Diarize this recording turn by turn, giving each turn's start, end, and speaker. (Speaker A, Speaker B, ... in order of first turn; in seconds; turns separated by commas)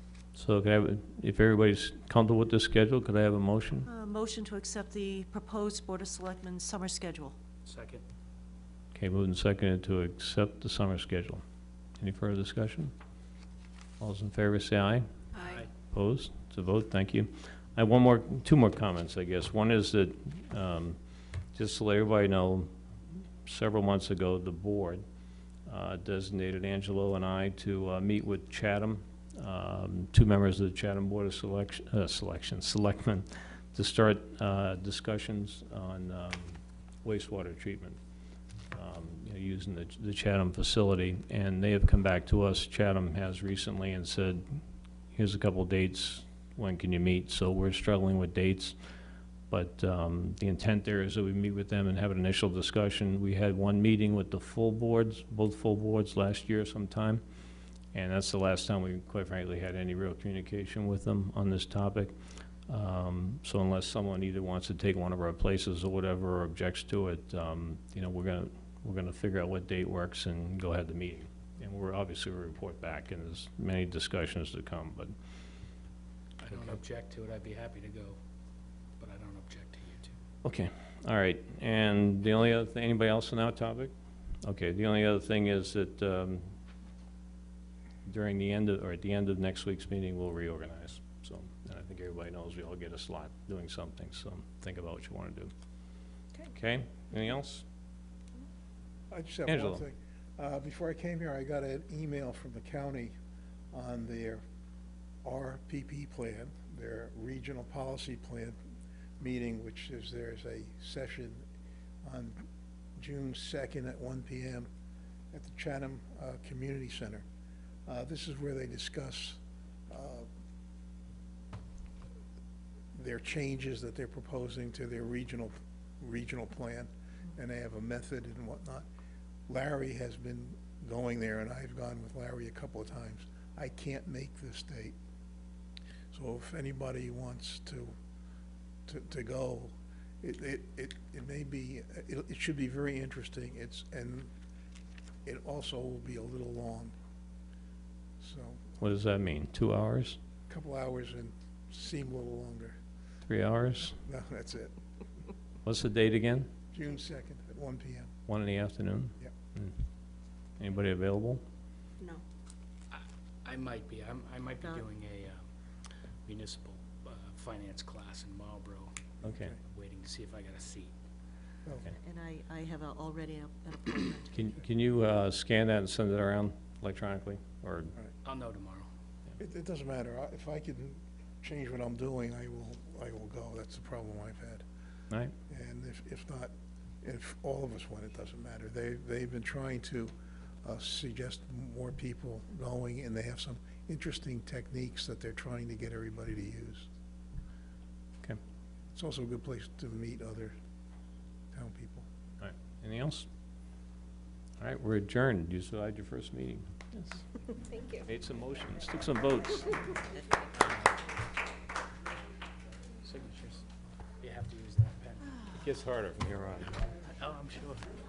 Speaker A: 0.3-3.9, Speaker B: 3.9-7.3, Speaker C: 7.7-8.0, Speaker A: 8.9-11.4, Speaker A: 12.0-12.9, Speaker A: 14.0-15.1, Speaker C: 15.4-15.7, Speaker A: 15.9-21.0, Speaker A: 21.5-22.7, Speaker A: 23.4-25.0, Speaker A: 25.6-38.0, Speaker A: 38.7-48.8, Speaker A: 49.5-57.2, Speaker A: 57.9-62.1, Speaker A: 62.7-75.1, Speaker C: 76.4-78.2, Speaker C: 79.0-80.1, Speaker A: 80.4-83.9, Speaker A: 84.4-86.5, Speaker A: 88.0-95.5, Speaker A: 96.5-97.6, Speaker D: 99.1-103.1, Speaker A: 99.5-99.8, Speaker D: 103.7-104.4, Speaker D: 105.2-108.6, Speaker D: 109.2-111.4, Speaker D: 112.0-114.7, Speaker D: 115.3-117.2, Speaker D: 117.9-120.3, Speaker D: 122.9-128.8, Speaker D: 129.5-134.9, Speaker D: 136.1-137.9, Speaker D: 138.9-144.3, Speaker D: 145.2-146.9, Speaker D: 148.2-148.8, Speaker A: 148.8-150.2, Speaker D: 150.5-152.8, Speaker A: 153.3-154.0, Speaker D: 154.0-154.7, Speaker A: 155.6-156.5, Speaker D: 156.7-158.1, Speaker A: 158.3-159.7, Speaker A: 160.6-161.4, Speaker C: 162.9-165.4, Speaker C: 166.2-168.9, Speaker D: 169.2-169.6, Speaker A: 169.2-169.5, Speaker C: 169.7-170.9, Speaker B: 172.0-174.5, Speaker A: 174.3-177.9, Speaker C: 178.2-178.9, Speaker D: 179.4-184.6, Speaker D: 185.5-190.1, Speaker D: 190.6-196.9, Speaker D: 198.9-200.5, Speaker D: 201.5-202.1, Speaker A: 202.4-203.3, Speaker A: 204.6-207.3, Speaker A: 207.9-209.9, Speaker C: 213.0-213.6, Speaker C: 214.2-215.5, Speaker A: 215.5-216.8, Speaker C: 217.0-217.8